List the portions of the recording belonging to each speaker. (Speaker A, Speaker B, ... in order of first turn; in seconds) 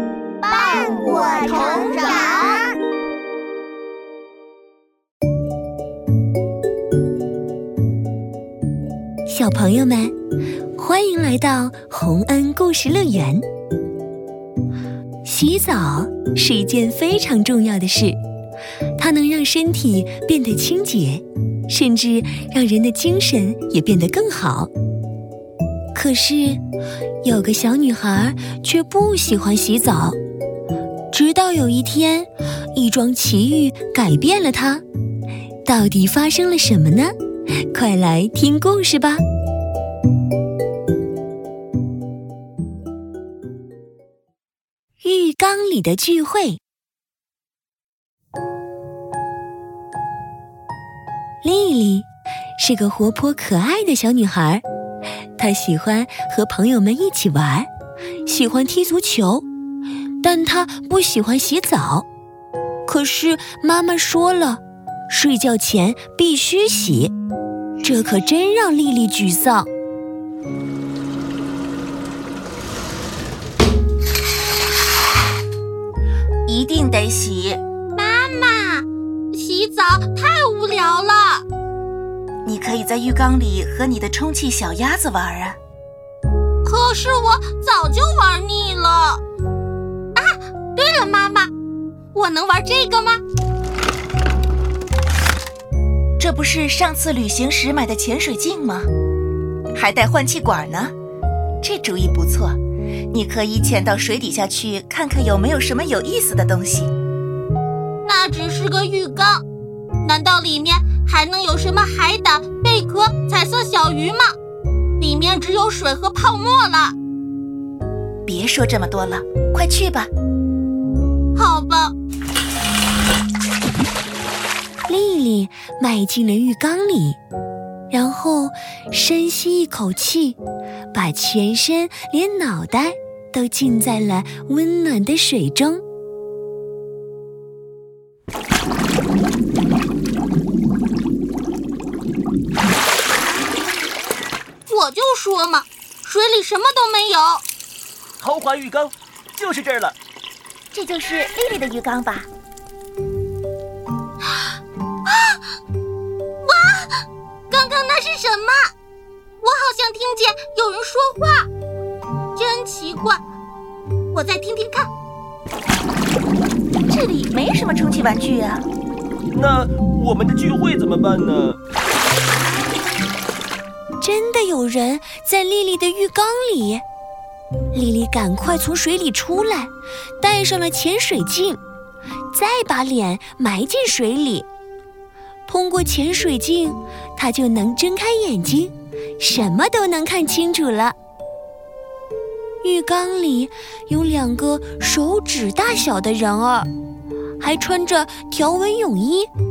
Speaker A: 0.4-2.7
Speaker B: 9.3-10.1, 10.7-13.4, 15.2-18.2, 19.0-24.7, 25.9-26.6, 27.2-30.2, 31.1-34.8, 35.6-37.1, 37.7-39.2, 45.0-46.6, 51.4-52.1, 52.6-54.6, 55.4-57.7, 58.3-59.4, 60.2-62.1, 62.9-67.1, 67.8-69.7, 124.9-127.2, 127.9-130.4, 130.9-135.8, 174.0-176.8, 177.7-181.6, 182.3-184.5, 185.5-190.9, 192.6-196.7, 197.4-199.3
Speaker C: 76.5-77.6, 82.4-85.6, 96.2-98.9, 99.7-100.9, 101.6-102.6, 103.1-106.9, 118.2-120.1, 150.7-152.3, 166.9-168.6
Speaker D: 77.9-81.4, 86.6-89.2, 90.1-91.5, 92.1-93.2, 108.0-109.4, 110.0-114.4, 115.0-117.0, 121.3-121.9, 144.7-147.4, 155.1-155.4, 156.4-158.7, 159.4-161.5, 162.3-163.2, 164.1-164.9
Speaker E: 148.2-149.9, 169.3-171.6